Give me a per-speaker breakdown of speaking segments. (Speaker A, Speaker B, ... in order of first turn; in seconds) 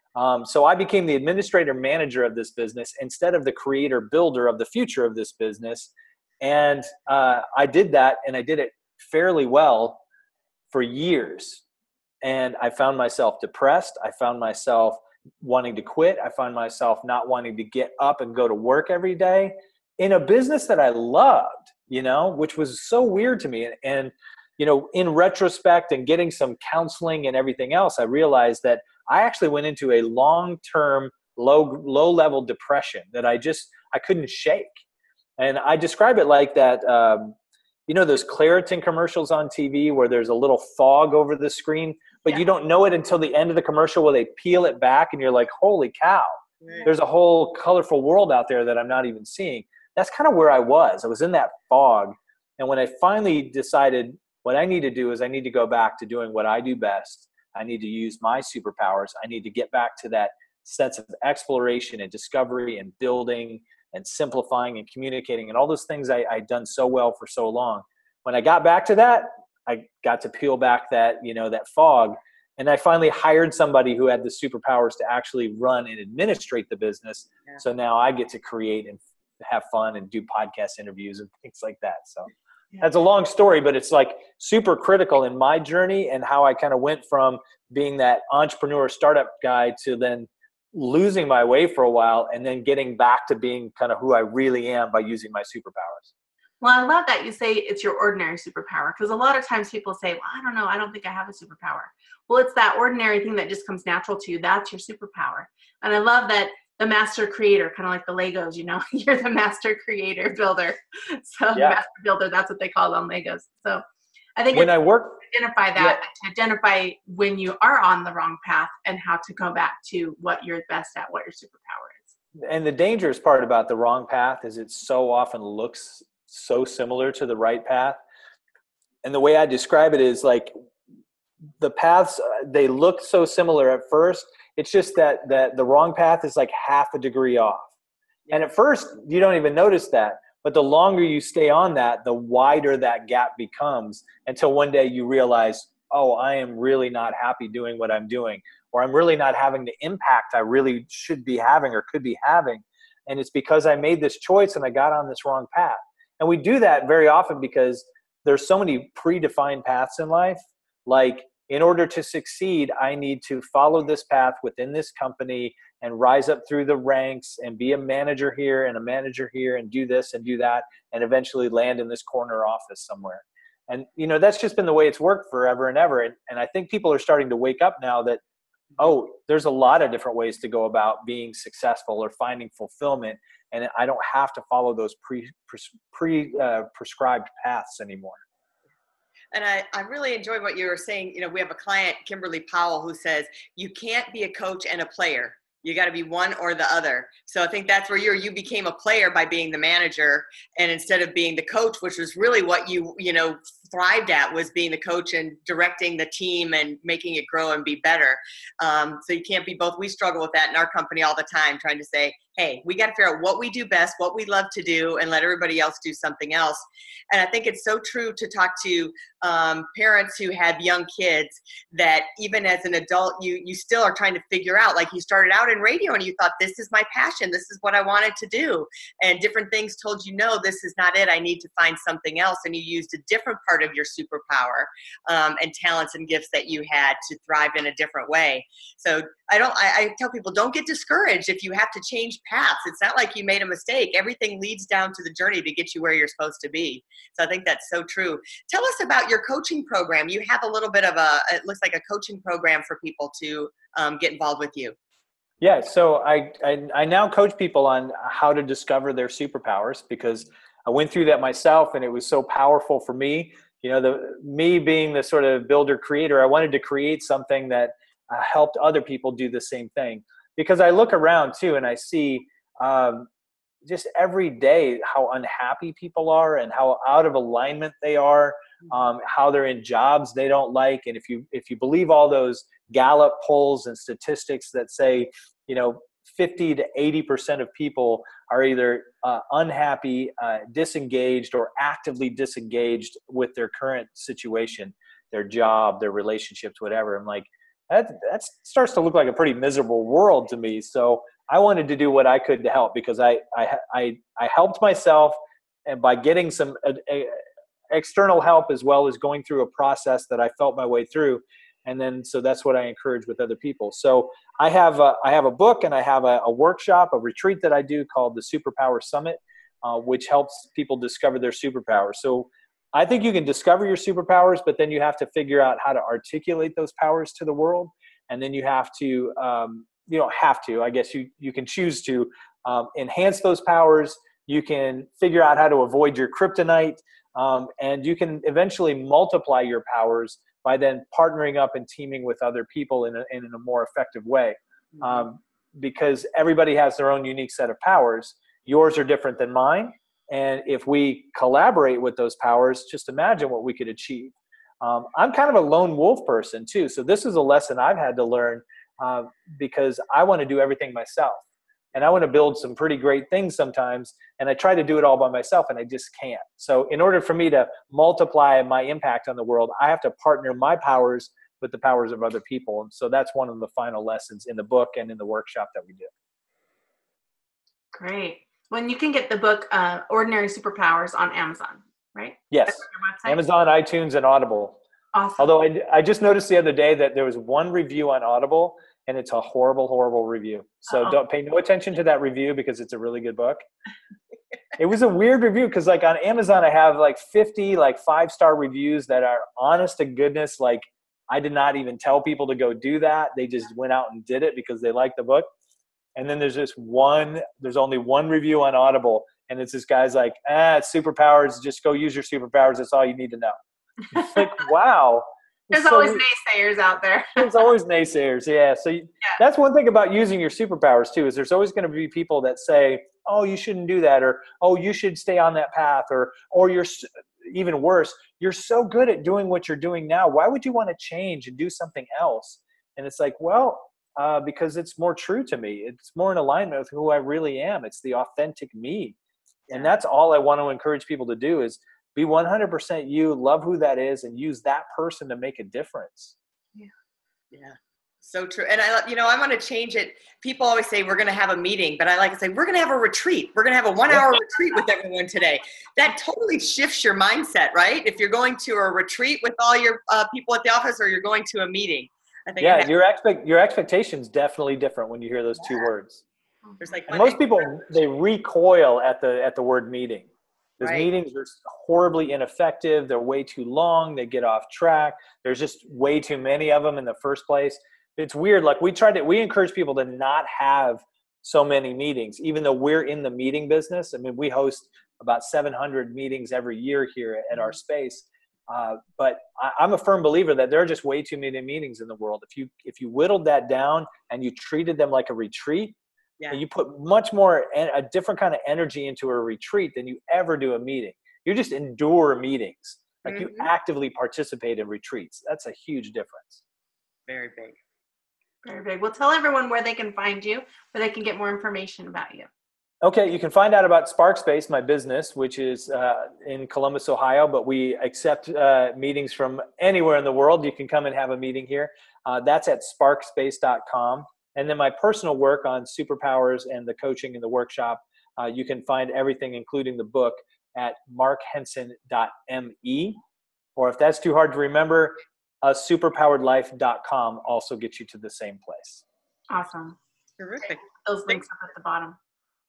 Speaker A: 0.1-5.9, 6.4-10.0, 10.7-11.6, 12.2-34.7, 35.4-37.4, 37.9-46.3, 46.9-96.1, 111.5-111.8, 114.5-115.2, 122.4-128.0, 129.0-130.5, 131.6-137.7, 138.3-178.2, 178.8-188.2, 255.4-273.1, 273.6-375.9, 382.3-384.6, 385.2-393.4, 394.6-405.3, 405.9-413.3, 413.9-416.0, 417.1-439.0, 439.5-446.1, 462.4-466.0, 466.9-470.1, 470.6-495.8, 496.3-506.4, 512.8-533.0, 533.5-538.8
Speaker B: 96.6-113.8, 114.4-122.1, 377.7-383.2, 384.9-385.3, 415.5-417.4, 508.4-512.3, 539.3-539.8, 540.7-542.0
Speaker C: 189.3-254.8, 447.3-462.7, 466.6-467.7, 470.6-470.9, 503.1-503.5, 507.1-507.6, 540.2-541.2